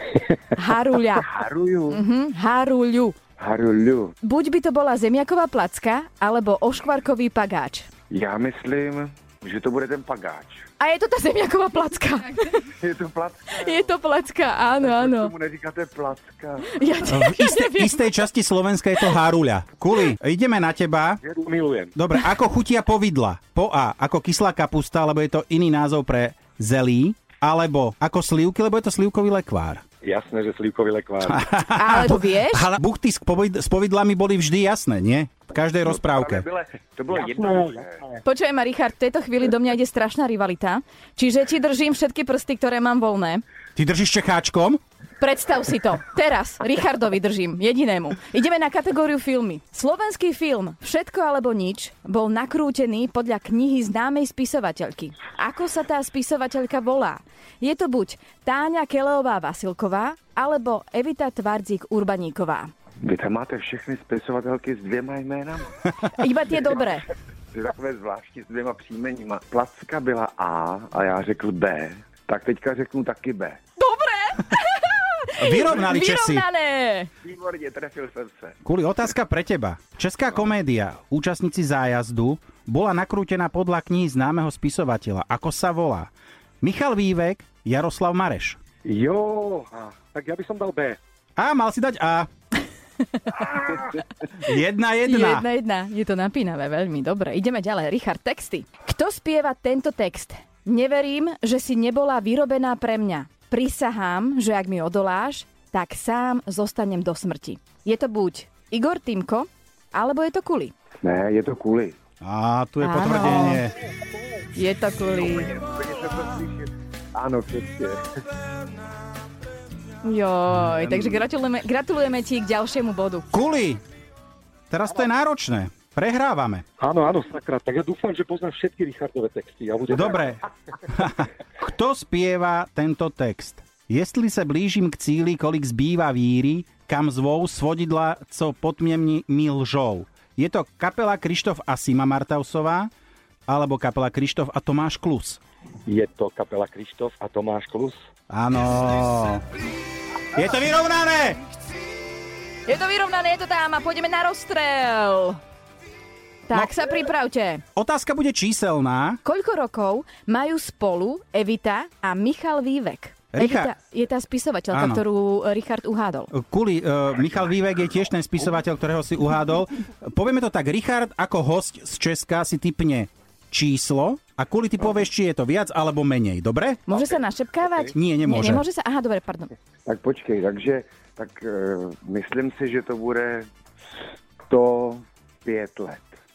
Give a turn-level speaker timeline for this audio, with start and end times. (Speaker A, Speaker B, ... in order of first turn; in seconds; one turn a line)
Speaker A: 0.5-1.3
Speaker B: 1.2-2.0
Speaker A: 1.9-3.1
Speaker B: 3.4-4.1
Speaker A: 4.2-7.9
Speaker B: 8.1-10.6
Speaker A: 10.8-12.6
Speaker B: 12.7-13.9
Speaker A: 13.6-15.3
Speaker B: 14.8-16.7
Speaker A: 16.7-18.1
Speaker C: 17.1-21.2
Speaker D: 21.3-21.9
Speaker C: 21.9-29.8
Speaker D: 30.0-31.4
Speaker C: 31.2-36.4
Speaker A: 31.7-32.7
Speaker B: 35.8-38.1
Speaker A: 38.2-43.4
Speaker C: 43.8-44.8
Speaker A: 45.2-62.7
Speaker B: 63.0-65.7
Speaker A: 66.2-67.0
Speaker B: 67.5-73.6
Speaker A: 73.8-77.1
Speaker C: 75.4-76.4
Speaker B: 77.2-78.5
Speaker C: 78.6-86.1
Speaker C: 86.6-88.6
Speaker D: 88.9-91.0
Speaker C: 91.4-92.3
Speaker C: 94.4-95.5
Speaker A: 95.0-110.7
Speaker B: 111.0-112.0
Speaker C: 112.2-113.7
Speaker A: 112.8-113.6
Speaker A: 114.5-115.5
Speaker B: 115.1-118.0
Speaker A: 120.0-123.3
Speaker C: 120.8-121.2
Speaker C: 123.3-123.8
Speaker C: 124.7-126.6
Speaker D: 126.8-130.1
Speaker C: 129.9-142.9
Speaker C: 143.5-145.4
Speaker D: 145.9-147.9
Speaker C: 148.3-149.4
Speaker C: 150.3-151.4
Speaker A: 152.6-155.4
Speaker A: 156.5-157.6
Speaker C: 157.7-159.2
Speaker A: 159.2-166.3
Speaker C: 163.3-163.7
Speaker C: 164.7-165.0
Speaker C: 166.3-176.8
Speaker A: 176.9-179.5
Speaker C: 177.9-178.6
Speaker B: 179.8-183.5
Speaker B: 184.5-186.2